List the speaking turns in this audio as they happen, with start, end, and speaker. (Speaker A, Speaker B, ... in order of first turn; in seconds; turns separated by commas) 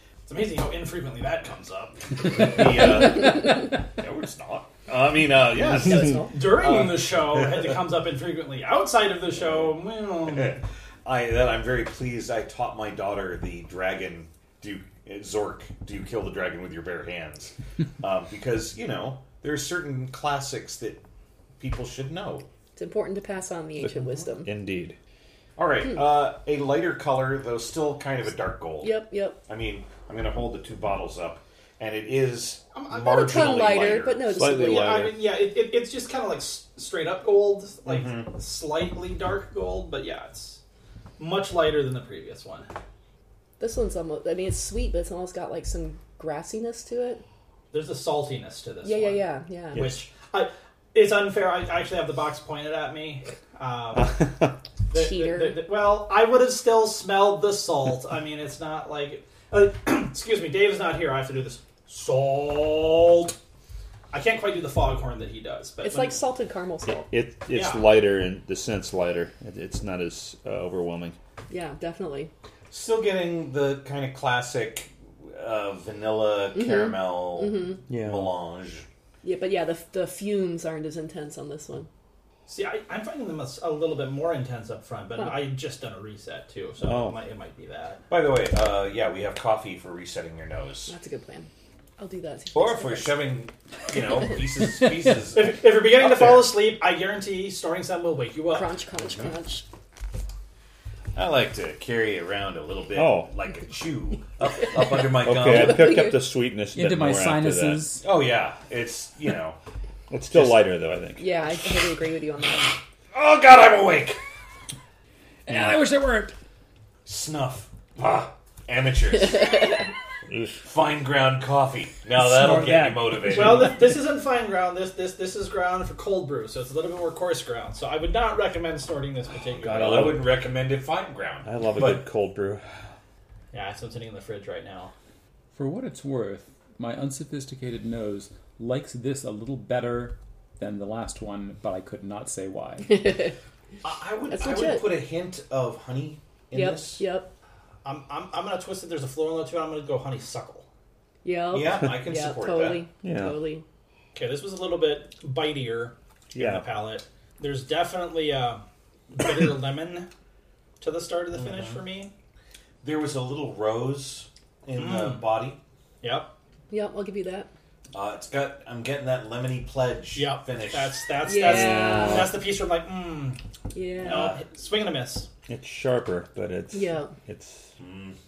Speaker A: 0.3-3.0, Speaker B: 2.3-7.6, Speaker A: 5.5-10.6, Speaker C: 5.8-6.4, Speaker B: 9.4-21.0, Speaker B: 21.6-22.4, Speaker C: 22.8-24.5, Speaker D: 23.8-24.9, Speaker B: 25.6-34.2, Speaker C: 28.8-29.4, Speaker A: 32.7-33.6, Speaker C: 33.0-35.0, Speaker D: 34.3-35.2, Speaker A: 34.6-40.6, Speaker B: 37.8-38.3, Speaker A: 41.2-42.7, Speaker C: 43.6-47.2, Speaker A: 47.7-54.2, Speaker C: 48.8-49.9, Speaker D: 49.7-50.0, Speaker D: 53.9-54.5, Speaker A: 54.9-63.4, Speaker C: 54.9-55.6, Speaker A: 64.1-66.2, Speaker C: 65.8-67.0, Speaker D: 66.9-71.2, Speaker A: 67.5-67.9, Speaker C: 71.5-72.3, Speaker B: 72.7-78.8, Speaker C: 76.5-77.8, Speaker D: 77.9-78.3, Speaker C: 79.2-81.9, Speaker A: 82.5-88.0, Speaker D: 86.8-87.2, Speaker B: 88.1-90.9, Speaker C: 90.9-93.2, Speaker B: 92.5-96.5, Speaker A: 95.3-98.7, Speaker C: 98.5-99.6, Speaker B: 101.1-106.0, Speaker D: 102.9-103.3, Speaker D: 105.1-107.9, Speaker C: 105.4-106.3, Speaker E: 106.7-108.0, Speaker B: 108.0-109.6, Speaker D: 110.1-111.3, Speaker B: 110.3-110.8, Speaker C: 111.2-112.8, Speaker B: 113.1-114.2, Speaker E: 115.5-116.3, Speaker B: 117.0-119.9, Speaker B: 120.6-123.8, Speaker D: 122.2-123.7, Speaker A: 123.2-130.1, Speaker B: 129.6-132.1, Speaker D: 129.6-130.3, Speaker D: 131.4-132.6, Speaker A: 133.5-134.9, Speaker E: 135.5-143.1, Speaker C: 142.9-143.3, Speaker B: 143.8-147.0, Speaker C: 144.3-144.9, Speaker C: 146.5-147.3, Speaker A: 147.8-150.7, Speaker C: 151.2-153.6, Speaker B: 151.5-152.8, Speaker D: 153.0-153.4, Speaker A: 154.1-160.1, Speaker D: 156.3-156.6, Speaker A: 160.8-162.1, Speaker B: 161.3-161.8, Speaker B: 162.8-165.6, Speaker A: 164.8-165.3, Speaker A: 166.0-166.3, Speaker C: 166.7-167.5, Speaker B: 167.9-171.0, Speaker A: 170.1-173.4, Speaker C: 171.2-172.3, Speaker D: 171.4-172.3, Speaker C: 173.7-174.2, Speaker B: 174.0-174.4, Speaker A: 174.0-175.3, Speaker D: 175.5-177.7, Speaker C: 176.7-177.1, Speaker B: 177.8-178.2